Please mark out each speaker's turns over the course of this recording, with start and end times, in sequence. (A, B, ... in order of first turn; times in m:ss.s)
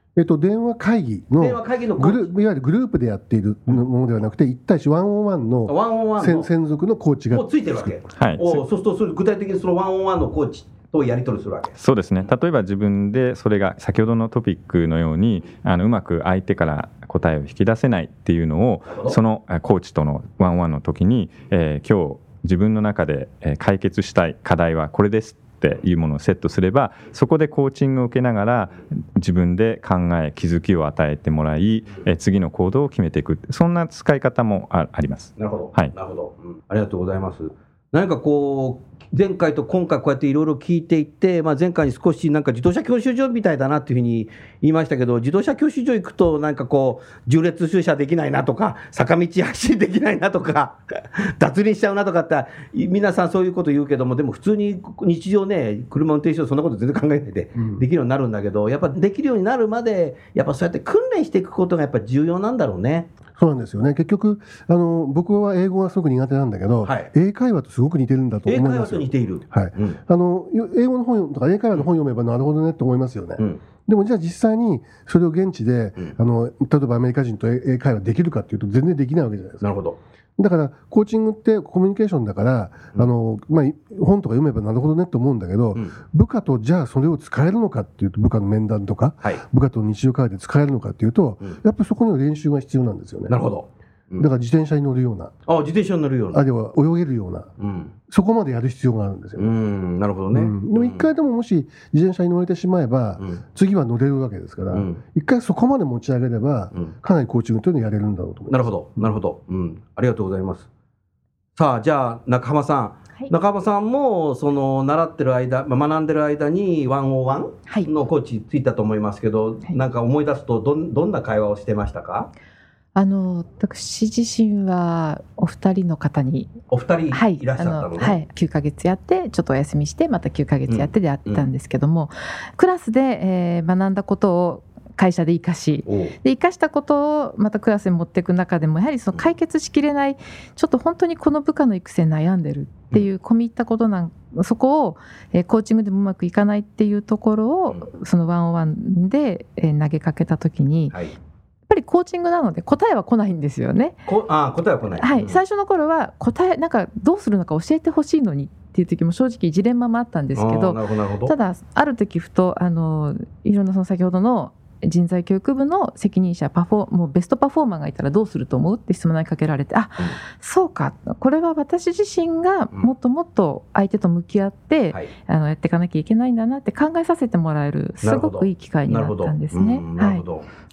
0:00.2-0:08.0 A
0:01.4-0:02.3 B
0:05.7-0:06.5 B
0:07.3-0:11.8 B
0:08.2-0:08.6 C
0:11.8-0:35.9 C
0:18.9-0:19.2 B
0:35.4-1:03.1 B
0:57.6-0:57.8 A
1:03.4-1:19.6 A
1:06.8-1:07.1 B
1:08.5-1:10.0 B
1:19.6-1:20.0 B
1:20.4-1:33.4 A
1:33.3-1:34.3 B
1:34.2-1:35.3 A
1:35.5-1:36.4 B
1:36.3-1:37.5 A
1:37.6-1:37.9 B
1:38.1-1:39.5 A
1:39.4-1:41.1 B
1:40.3-1:48.7 A
1:44.7-1:45.0 B
1:48.5-1:50.7 B
1:51.6-2:02.3 B
2:03.0-2:06.6 D
2:06.7-2:08.2 B
2:07.1-2:31.0 D
2:10.7-2:11.4 B
2:15.9-2:16.2 B
2:31.7-2:34.0 D
2:34.1-2:35.4 B
2:35.0-3:00.2 D
2:40.4-2:41.3 B
2:58.0-3:00.4 B